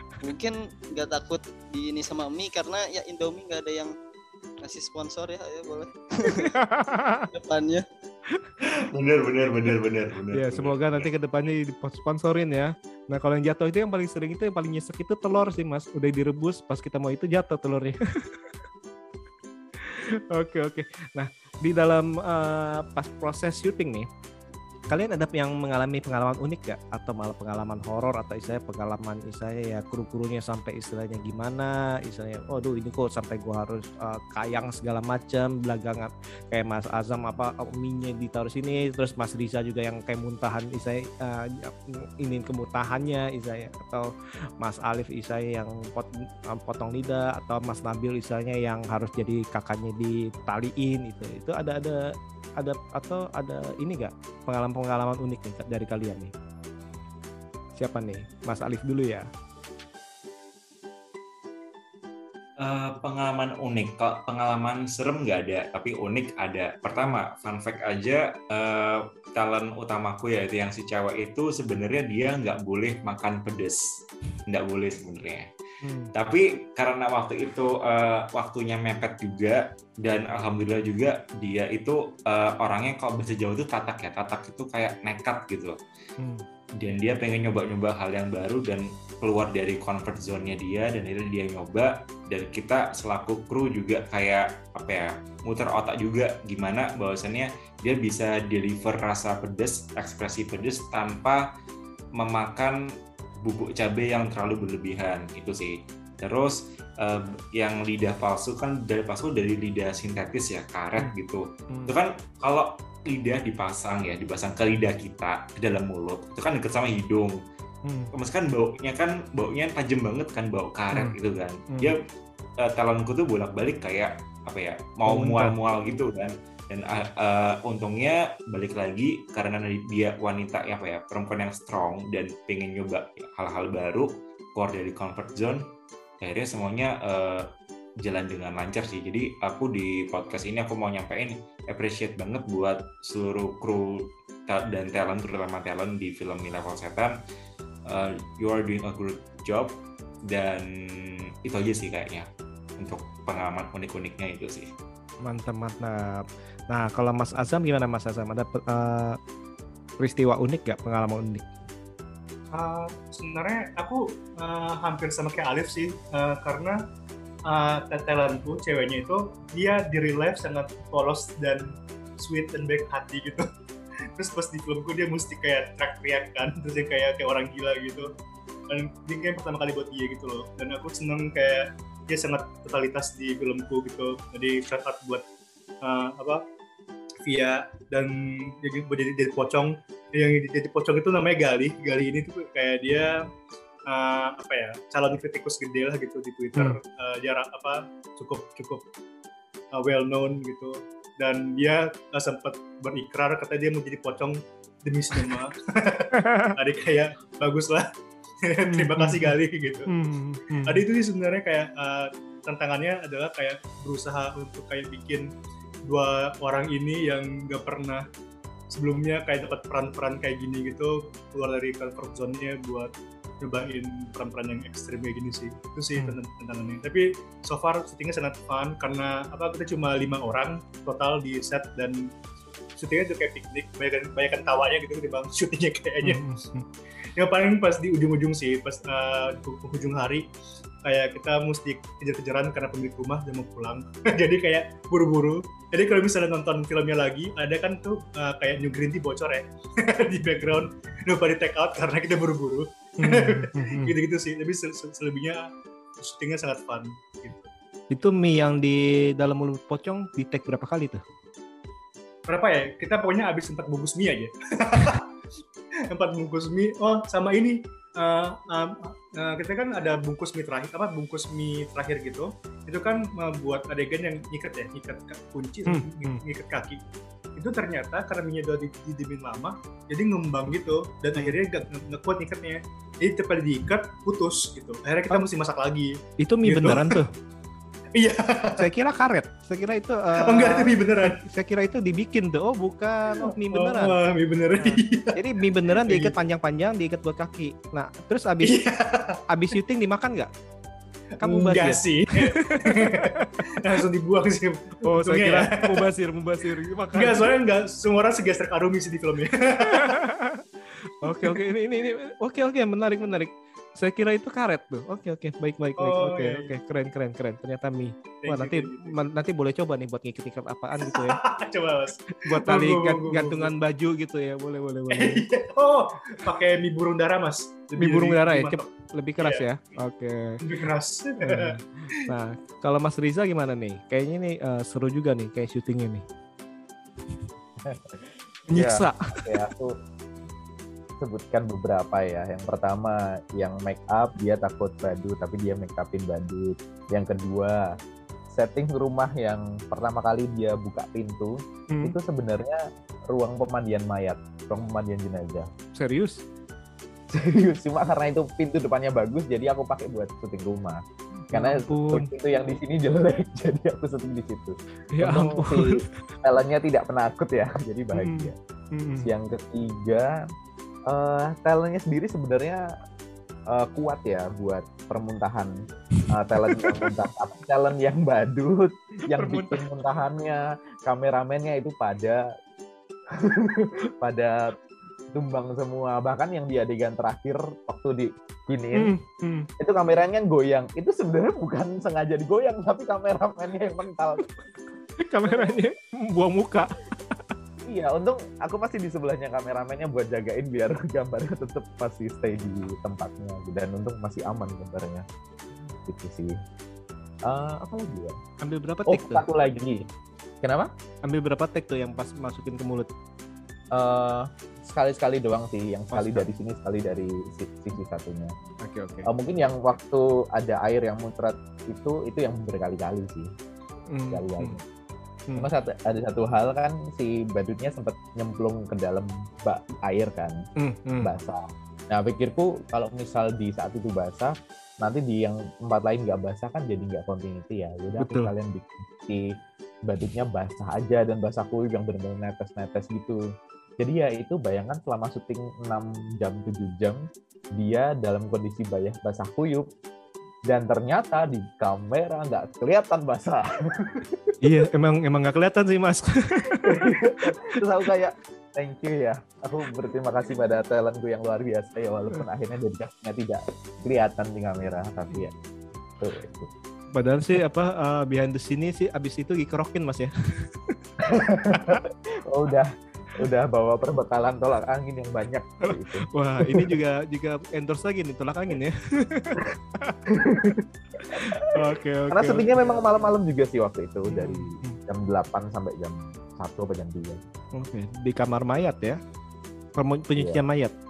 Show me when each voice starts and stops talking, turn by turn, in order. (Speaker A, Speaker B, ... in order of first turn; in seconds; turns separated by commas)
Speaker A: 0.2-3.9, Speaker A: 4.6-6.5, Speaker B: 6.2-7.3, Speaker A: 7.3-7.8, Speaker C: 8.9-11.1, Speaker B: 10.3-18.4, Speaker B: 19.8-24.1, Speaker B: 24.9-44.1, Speaker B: 44.6-56.3, Speaker B: 57.8-59.3, Speaker C: 62.6-73.8, Speaker C: 74.5-75.5, Speaker B: 75.8-76.1, Speaker C: 76.1-85.8, Speaker B: 86.2-86.4, Speaker C: 86.8-101.4, Speaker C: 102.2-102.8, Speaker C: 103.4-117.4, Speaker B: 117.8-118.1, Speaker C: 118.1-122.0, Speaker B: 120.9-121.2, Speaker C: 122.6-135.7, Speaker B: 125.0-125.6, Speaker C: 136.2-137.5, Speaker C: 138.0-147.2, Speaker C: 147.9-149.8, Speaker C: 150.3-152.3, Speaker C: 152.8-154.7, Speaker B: 155.2-159.2, Speaker B: 160.0-161.4, Speaker D: 162.5-166.8, Speaker D: 167.4-173.5, Speaker D: 174.2-178.1, Speaker D: 178.7-185.2, Speaker D: 185.8-186.4, Speaker D: 187.2-193.2, Speaker D: 193.9-198.8, Speaker D: 199.7-207.9, Speaker B: 206.2-206.5, Speaker D: 208.4-209.9, Speaker B: 208.7-209.3, Speaker B: 209.9-210.8, Speaker D: 210.6-215.3, Speaker D: 215.8-218.0, Speaker D: 218.7-232.1, Speaker D: 232.8-236.2, Speaker B: 236.0-236.7, Speaker D: 237.1-240.3, Speaker D: 240.8-255.5, Speaker B: 253.0-253.9, Speaker D: 256.0-257.5, Speaker B: 257.9-261.0, Speaker D: 262.3-265.1, Speaker D: 265.9-276.8, Speaker B: 275.7-276.2, Speaker D: 277.4-287.0, Speaker B: 286.2-287.1, Speaker D: 287.9-288.7, Speaker B: 288.5-293.9, Speaker D: 290.2-291.2, Speaker D: 293.1-296.1, Speaker B: 294.6-298.6, Speaker D: 298.4-299.2, Speaker B: 299.3-300.3, Speaker D: 301.2-305.9, Speaker B: 301.2-303.6, Speaker B: 304.8-307.3, Speaker D: 306.9-309.9, Speaker B: 309.7-321.2, Speaker D: 311.0-311.4, Speaker D: 315.8-316.5, Speaker D: 318.2-319.0, Speaker D: 320.8-323.5, Speaker B: 322.3-325.2, Speaker D: 324.9-329.4, Speaker B: 327.8-330.4, Speaker D: 330.4-332.1, Speaker B: 331.2-336.0, Speaker E: 337.6-339.8, Speaker B: 338.5-339.0, Speaker E: 341.0-347.8, Speaker E: 348.3-352.6, Speaker E: 353.1-355.5, Speaker B: 355.8-356.2, Speaker E: 357.1-360.8, Speaker B: 361.3-362.1, Speaker E: 361.3-368.4, Speaker B: 364.9-365.8, Speaker B: 367.9-369.1, Speaker E: 369.0-370.1, Speaker E: 370.9-372.6, Speaker E: 373.5-375.5, Speaker E: 376.1-382.2, Speaker B: 376.5-376.9, Speaker B: 379.1-379.7, Speaker E: 383.1-384.5, Speaker E: 385.1-388.9, Speaker B: 388.7-389.5, Speaker E: 389.6-394.3, Speaker B: 395.1-397.3, Speaker E: 395.2-395.7, Speaker E: 397.6-405.0, Speaker E: 405.9-406.4, Speaker E: 407.3-408.1, Speaker B: 408.4-409.2, Speaker E: 408.9-409.9, Speaker E: 410.4-410.7, Speaker B: 411.0-412.9, Speaker E: 413.7-418.3, Speaker B: 415.9-416.2, Speaker B: 418.6-419.1, Speaker E: 419.0-423.3, Speaker B: 423.9-424.6, Speaker E: 424.1-424.6, Speaker E: 425.4-430.4, Speaker B: 430.6-431.1, Speaker E: 431.0-439.3, Speaker B: 438.0-438.3, Speaker E: 439.9-443.2, Speaker E: 443.8-447.0, Speaker E: 447.6-449.7, Speaker E: 450.5-454.6, Speaker B: 454.4-457.3, Speaker E: 456.6-465.3, Speaker E: 466.0-466.5, Speaker B: 466.9-470.8, Speaker E: 471.1-476.7, Speaker B: 475.6-480.0, Speaker E: 480.1-481.5, Speaker B: 481.4-483.0, Speaker E: 482.1-487.2, Speaker B: 484.1-484.8, Speaker B: 487.6-489.0, Speaker B: 489.8-490.7, Speaker E: 490.1-490.4